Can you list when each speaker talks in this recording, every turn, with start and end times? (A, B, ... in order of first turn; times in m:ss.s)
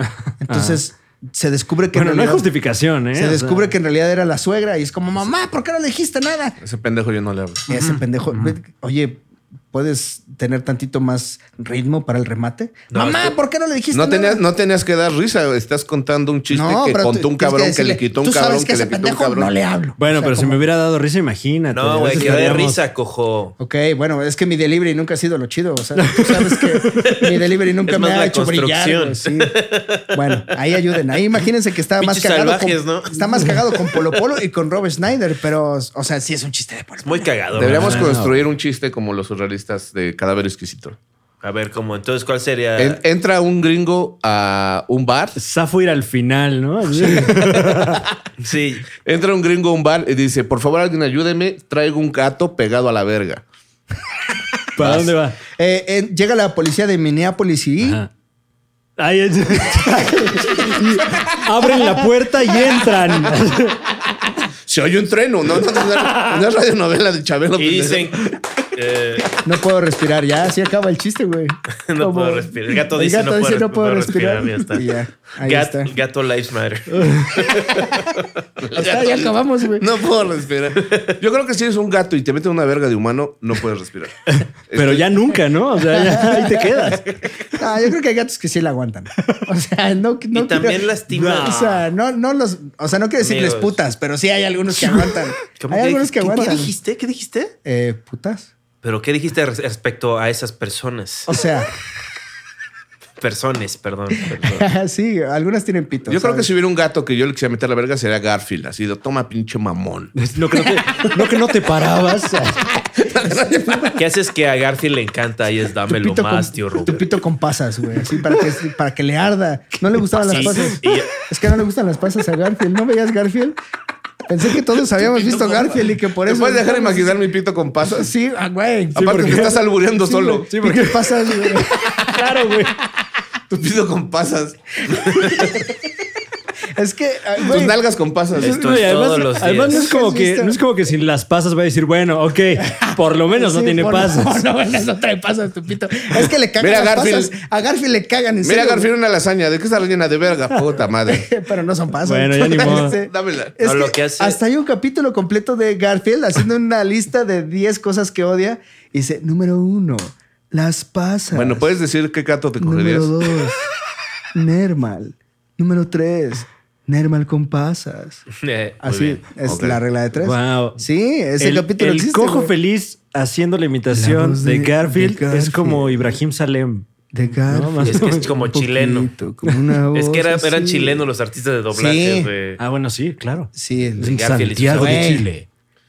0:00.4-0:02.5 A
0:00.5-0:00.8 B
0:01.9-0:03.7 B
0:03.1-0:06.6 A
0:06.6-0:07.7 C
0:07.7-0:14.4 A
0:12.9-0:13.4 D
0:13.9-0:19.5 C
0:16.5-0:20.6 A
0:20.0-0:22.8 B
0:21.7-0:23.6 D
0:22.1-0:22.5 A
0:23.6-0:29.6 A
0:26.0-0:27.1 B
0:27.9-0:30.2 D
0:30.1-0:37.2 A
0:32.0-0:34.0 D
0:37.0-0:38.2 D
0:37.6-0:41.0 C
0:37.6-0:38.4 B
0:41.4-0:43.0 D
0:42.8-0:45.4 C
0:45.4-0:48.0 B
0:48.4-0:48.9 D
0:49.0-0:53.4 C
0:54.8-0:55.4 B
0:54.8-0:58.0 A
0:57.8-0:58.1 B
0:59.0-1:03.8 B
1:04.6-1:08.3 C
1:07.6-1:09.4 D
1:09.4-1:15.9 A
1:11.9-1:14.9 D
1:15.4-1:18.3 D
1:16.9-1:17.3 B
1:18.6-1:24.2 C
1:18.7-1:19.9 A
1:20.8-1:21.2 D
1:24.3-1:27.0 B
1:24.7-1:25.1 C
1:25.8-1:27.0 A
1:27.5-1:36.7 A
1:30.3-1:31.8 D
1:31.1-1:31.8 B
1:33.2-1:33.8 D
1:35.6-1:37.5 D
1:37.6-1:38.5 A
1:38.8-1:41.3 D
1:41.3-1:41.7 A
1:43.2-1:44.6 D
1:44.4-1:46.5 A
1:46.1-1:50.1 C
1:50.2-1:52.7 B
1:52.9-1:54.0 C
1:54.0-1:57.2 D
1:55.9-2:03.6 A
2:00.2-2:01.1 D
2:04.3-2:07.2 A
2:05.0-2:08.1 C
2:08.0-2:12.3 A
2:09.0-2:10.5 C
2:09.0-2:09.6 B
2:10.5-2:12.7 B
2:13.5-2:15.6 C
2:16.8-2:17.8 A
2:17.4-2:18.6 C
2:18.4-2:19.9 D
2:18.4-2:19.0 A
2:18.5-2:24.5 B
2:19.6-2:20.6 A
2:22.6-2:28.9 A
2:26.6-2:27.3 C
2:28.4-2:31.3 C
2:31.1-2:41.7 A
2:32.0-2:33.0 B
2:32.6-2:33.6 C
2:33.6-2:34.4 D
2:41.3-2:43.1 C
2:42.6-2:43.6 A
2:44.3-2:48.2 A
2:48.3-2:49.2 D
2:48.8-2:52.5 A
2:49.4-2:49.8 C
2:50.2-2:50.8 B
2:51.4-2:56.9 B
2:53.9-2:56.1 A
2:57.1-3:01.0 A
2:57.4-2:58.2 B
2:57.9-2:59.1 D
2:59.9-3:02.6 D
3:01.7-3:02.3 A
3:02.6-3:05.5 B
3:03.6-3:04.2 A
3:04.0-3:05.2 D
3:04.7-3:05.3 A